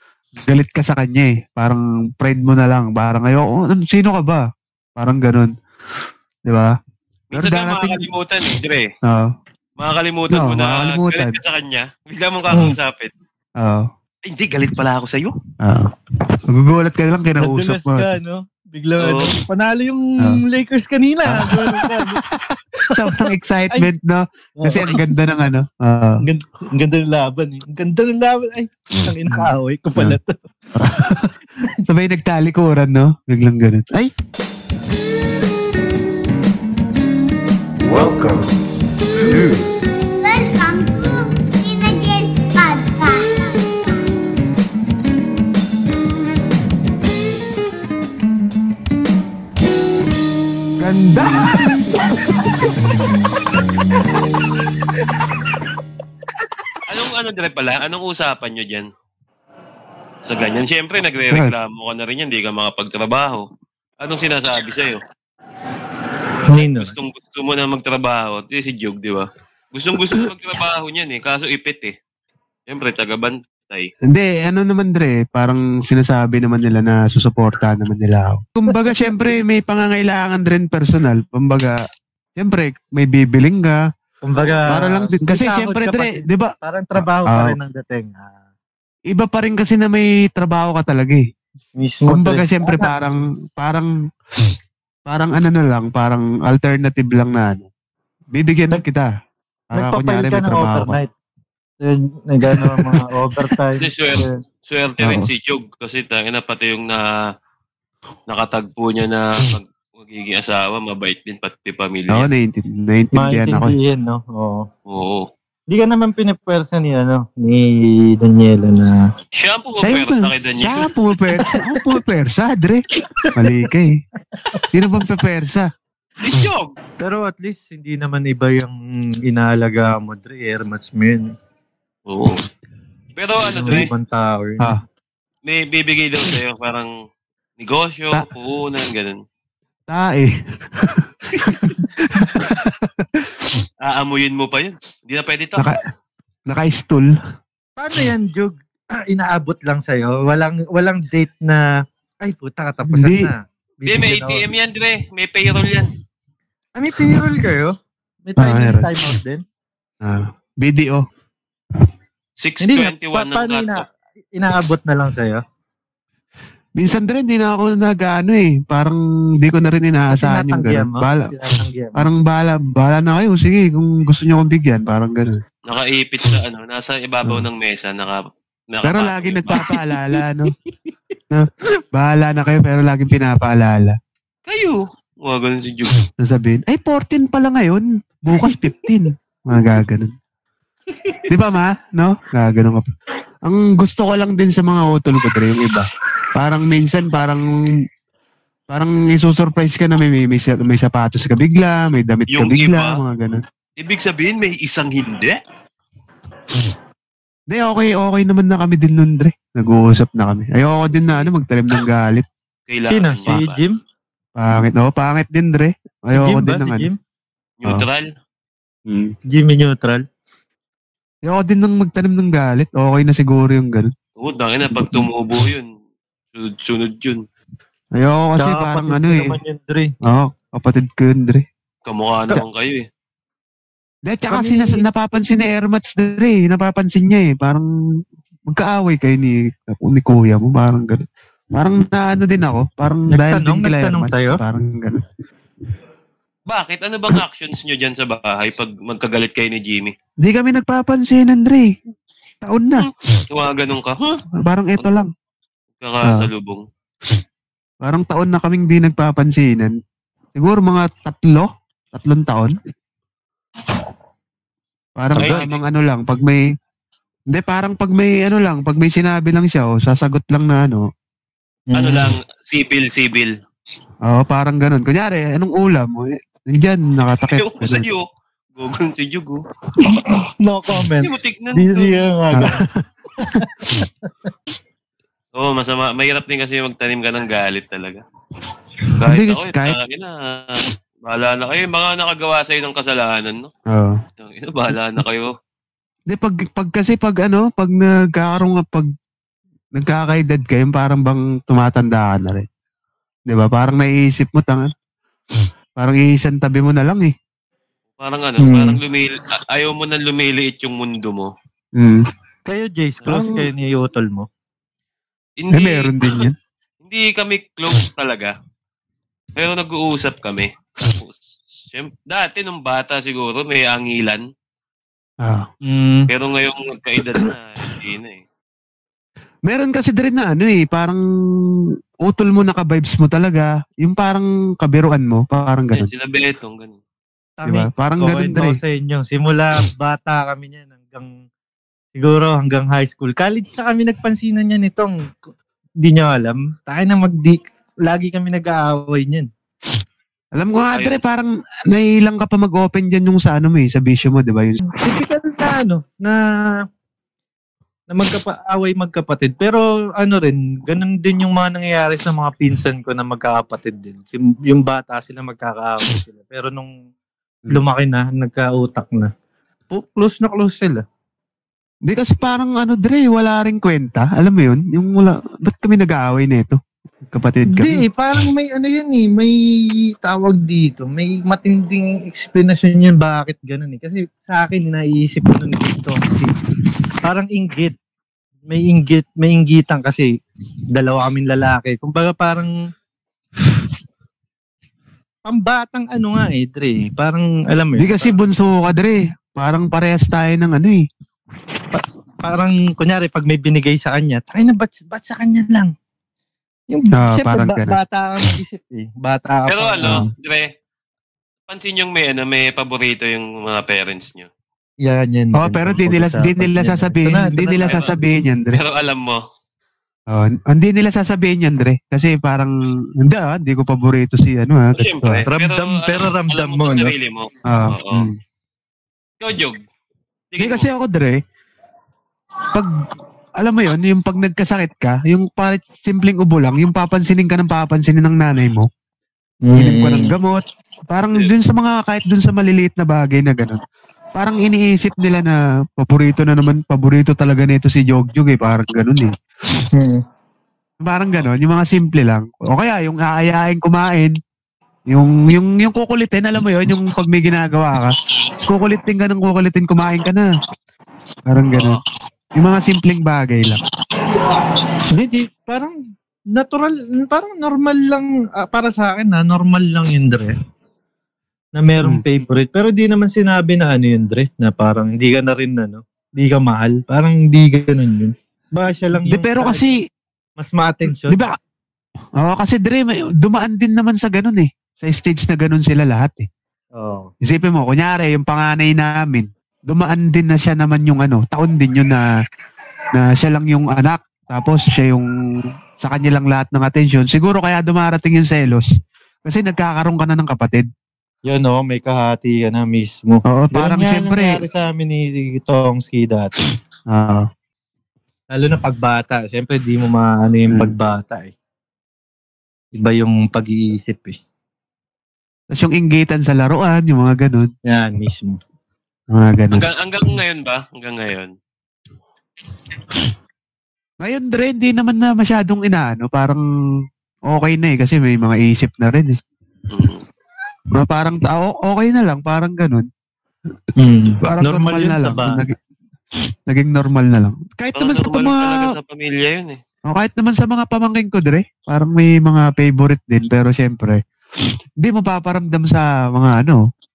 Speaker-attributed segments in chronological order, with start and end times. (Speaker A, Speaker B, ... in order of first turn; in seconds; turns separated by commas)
Speaker A: 0.4-4.4, Speaker A: 5.0-5.5, Speaker A: 6.5-6.8, Speaker B: 7.3-8.9, Speaker A: 7.3-8.0, Speaker A: 9.0-9.3, Speaker B: 9.8-13.1, Speaker A: 10.3-11.3, Speaker C: 12.5-12.7, Speaker A: 13.6-13.9, Speaker B: 14.2-15.4, Speaker A: 15.6-15.9, Speaker A: 16.5-18.1, Speaker C: 17.4-22.2, Speaker B: 19.0-19.3, Speaker A: 21.3-26.2, Speaker C: 22.9-23.2, Speaker C: 24.6-25.0, Speaker C: 26.2-30.4, Speaker A: 29.3-30.1, Speaker A: 30.8-34.1, Speaker A: 37.8-38.5, Speaker C: 39.1-39.4, Speaker A: 39.1-39.6, Speaker D: 40.2-44.1, Speaker A: 50.8-52.2, Speaker A: 52.8-53.1, Speaker B: 56.9-58.9, Speaker B: 60.2-63.5, Speaker B: 64.0-65.0, Speaker B: 66.4-71.9, Speaker C: 66.4-66.9, Speaker B: 72.7-73.9, Speaker A: 74.1-81.8, Speaker A: 82.4-83.8, Speaker C: 84.2-88.3, Speaker A: 84.7-87.5, Speaker A: 89.1-91.2, Speaker C: 91.8-92.9, Speaker A: 92.1-93.9, Speaker A: 95.1-97.7, Speaker A: 98.3-99.1, Speaker C: 99.7-101.1, Speaker A: 99.7-101.0, Speaker C: 101.8-104.3, Speaker A: 102.6-103.0, Speaker B: 103.8-107.1, Speaker A: 105.0-105.3, Speaker B: 108.3-112.3, Speaker A: 112.1-113.7, Speaker C: 113.1-114.7, Speaker B: 114.9-115.3, Speaker C: 115.7-119.0, Speaker B: 119.3-120.9, Speaker A: 119.8-122.8, Speaker C: 121.3-121.8, Speaker C: 123.0-123.3, Speaker A: 123.3-124.0, Speaker A: 124.7-125.7, Speaker B: 126.2-126.8, Speaker C: 127.0-131.3, Speaker B: 132.1-132.4, Speaker B: 133.2-133.9, Speaker C: 133.4-134.6, Speaker B: 135.4-136.9, Speaker B: 137.6-139.2, Speaker A: 139.9-143.6, Speaker B: 143.8-145.7, Speaker A: 145.6-145.8, Speaker A: 146.5-147.1, Speaker C: 147.8-151.7, Speaker C: 152.2-154.5, Speaker A: 152.9-153.3, Speaker B: 153.9-155.9, Speaker C: 156.8-157.7, Speaker C: 158.2-159.4, Speaker A: 158.4-159.2, Speaker A: 160.0-161.0, Speaker B: 162.4-163.8, Speaker C: 162.6-163.8, Speaker C: 164.3-165.4, Speaker A: 166.8-171.3, Speaker C: 170.1-172.1, Speaker A: 171.9-175.4, Speaker B: 175.7-179.7, Speaker A: 178.8-180.5, Speaker A: 181.3-184.0, Speaker B: 184.4-186.0, Speaker A: 186.2-190.1, Speaker B: 190.9-191.2, Speaker A: 191.3-192.9, Speaker A: 193.4-197.5, Speaker A: 198.7-203.4, Speaker B: 202.3-203.0, Speaker B: 203.8-205.4, Speaker A: 207.5-212.2, Speaker B: 212.7-213.6, Speaker C: 212.9-213.7, Speaker A: 214.4-216.9, Speaker C: 216.1-217.0, Speaker B: 217.6-218.1, Speaker A: 218.9-219.1, Speaker C: 219.3-220.0, Speaker A: 221.2-223.9, Speaker B: 224.2-225.7, Speaker B: 226.3-227.2, Speaker A: 227.9-229.3, Speaker C: 228.4-229.9, Speaker A: 230.0-231.4, Speaker B: 231.8-232.9, Speaker A: 234.1-237.7, Speaker C: 234.3-234.8, Speaker A: 238.5-245.0, Speaker C: 243.1-244.4, Speaker B: 246.5-249.9, Speaker A: 250.2-251.7, Speaker A: 252.4-252.9, Speaker B: 252.8-254.2, Speaker A: 254.4-255.1, Speaker B: 255.8-256.6, Speaker A: 257.8-259.7, Speaker A: 260.3-262.6, Speaker A: 265.0-266.4, Speaker B: 265.1-265.6, Speaker C: 265.2-265.4, Speaker A: 267.3-270.8, Speaker C: 271.7-272.1, Speaker B: 271.7-273.3, Speaker A: 274.1-277.9, Speaker B: 277.3-279.4, Speaker C: 279.8-282.6, Speaker B: 281.0-282.0, Speaker A: 282.3-283.8, Speaker C: 283.2-283.9, Speaker B: 285.3-288.0, Speaker B: 289.0-293.5, Speaker A: 289.0-289.8, Speaker A: 293.7-294.0, Speaker B: 294.2-295.3, Speaker A: 296.1-298.9, Speaker A: 299.7-302.5, Speaker A: 303.3-304.7, Speaker A: 305.8-307.1, Speaker B: 308.0-311.3, Speaker C: 308.4-308.8, Speaker A: 311.8-312.0, Speaker C: 312.5-314.3, Speaker A: 313.1-313.4, Speaker B: 315.4-316.2, Speaker A: 315.5-316.3, Speaker B: 316.8-318.3, Speaker B: 319.4-324.2, Speaker C: 325.6-326.1, Speaker B: 326.1-328.2, Speaker A: 329.4-331.0, Speaker A: 332.0-335.9, Speaker B: 335.7-336.8, Speaker C: 337.4-341.1, Speaker A: 337.4-338.6, Speaker C: 341.9-345.1, Speaker C: 345.8-349.3, Speaker A: 350.4-354.6, Speaker B: 350.7-351.0, Speaker C: 354.7-356.6, Speaker C: 357.9-366.7, Speaker C: 367.5-369.1, Speaker C: 369.7-370.8, Speaker A: 371.9-376.6, Speaker A: 377.1-377.8, Speaker C: 377.5-386.4, Speaker C: 387.0-387.8, Speaker C: 388.5-390.1, Speaker C: 390.7-392.5, Speaker C: 395.2-398.1, Speaker A: 397.8-400.8, Speaker C: 401.7-405.7, Speaker C: 406.7-410.0, Speaker A: 407.0-407.8, Speaker B: 409.5-410.5, Speaker B: 411.5-414.3, Speaker C: 414.8-417.8, Speaker A: 415.4-418.6, Speaker B: 418.5-419.2, Speaker A: 420.1-425.2, Speaker B: 424.7-428.1, Speaker C: 425.3-426.9, Speaker A: 427.4-428.1, Speaker B: 429.2-429.6, Speaker B: 430.3-430.7, Speaker A: 430.4-431.2, Speaker A: 432.5-432.8, Speaker A: 433.4-438.7, Speaker C: 439.4-440.1, Speaker A: 439.5-443.6, Speaker A: 444.1-449.1, Speaker C: 449.7-450.0, Speaker A: 450.8-454.1, Speaker A: 454.9-460.3, Speaker A: 461.3-461.8, Speaker B: 461.5-461.8, Speaker A: 462.4-463.6, Speaker C: 464.9-465.7, Speaker C: 466.3-470.4, Speaker C: 471.6-479.7, Speaker A: 479.1-479.7, Speaker C: 480.4-481.2, Speaker A: 481.0-481.3, Speaker A: 482.2-486.3, Speaker C: 486.7-487.1, Speaker A: 487.2-492.1, Speaker A: 492.9-495.1, Speaker A: 495.8-498.7, Speaker A: 499.2-500.7, Speaker C: 501.2-506.4, Speaker A: 503.3-504.4, Speaker A: 506.9-507.3, Speaker C: 508.3-511.3, Speaker C: 512.7-514.2, Speaker A: 515.5-517.5, Speaker C: 517.7-518.4, Speaker A: 519.1-519.6, Speaker B: 519.5-521.3, Speaker A: 524.0-526.4, Speaker A: 527.3-529.2, Speaker B: 529.7-530.0, Speaker A: 530.8-532.9, Speaker C: 533.8-535.4, Speaker A: 534.2-535.5, Speaker A: 536.5-538.7, Speaker B: 537.7-539.6, Speaker A: 539.9-544.0, Speaker A: 544.8-546.6